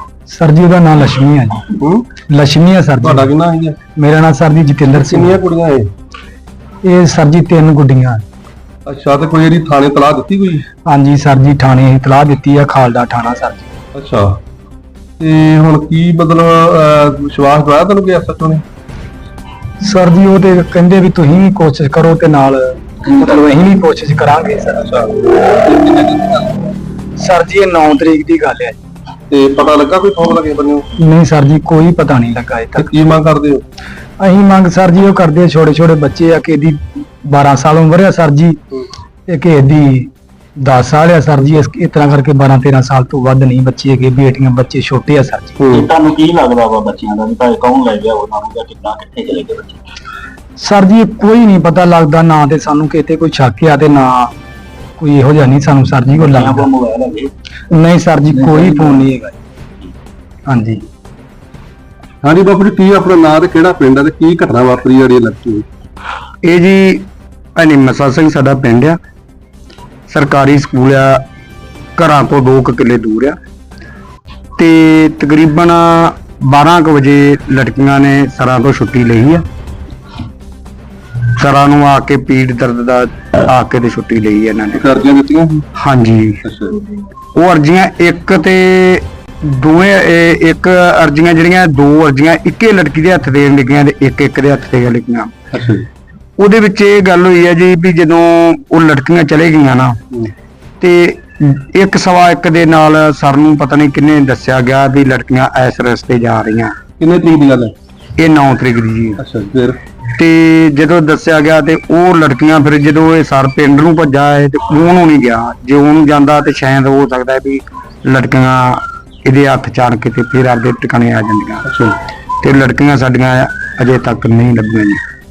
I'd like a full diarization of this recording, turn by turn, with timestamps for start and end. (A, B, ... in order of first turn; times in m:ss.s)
0:00.3-0:01.6 A
0:01.8-0:02.1 B
0:02.3-0:03.3 A
0:03.0-0:03.8 B
0:04.0-0:05.4 A
0:04.9-0:05.9 B
0:06.8-0:08.2 A
0:08.9-0:10.7 B
0:10.9-0:13.7 A
0:14.0-0:14.4 B
0:15.2-0:18.6 B
0:19.8-0:24.9 A
0:24.8-0:26.7 B
0:27.2-0:28.8 A
0:29.3-0:30.9 B
0:31.0-0:32.9 A
0:32.8-0:33.6 B
0:34.2-0:38.6 A
0:39.3-0:40.1 A
0:40.6-0:45.6 A
0:45.6-0:45.9 B
0:45.7-0:49.8 C
0:50.6-0:54.3 A
0:55.0-0:56.7 A
0:56.2-0:57.3 C
0:57.7-0:59.4 A
0:58.4-0:59.0 C
1:00.5-1:00.8 A
1:02.2-1:05.7 B
1:06.4-1:09.0 D
1:10.1-1:11.2 D
1:12.0-1:13.4 D
1:14.6-1:19.4 D
1:21.4-1:24.8 D
1:24.7-1:25.7 B
1:25.8-1:26.4 D
1:26.4-1:26.8 B
1:27.4-1:35.3 D
1:35.5-1:35.9 B
1:36.4-1:40.0 D
1:40.8-1:46.7 D
1:47.0-1:47.7 B
1:48.2-1:49.2 D
1:49.2-1:49.8 B
1:50.1-2:01.6 D
2:01.7-2:02.0 B
2:02.4-2:05.0 D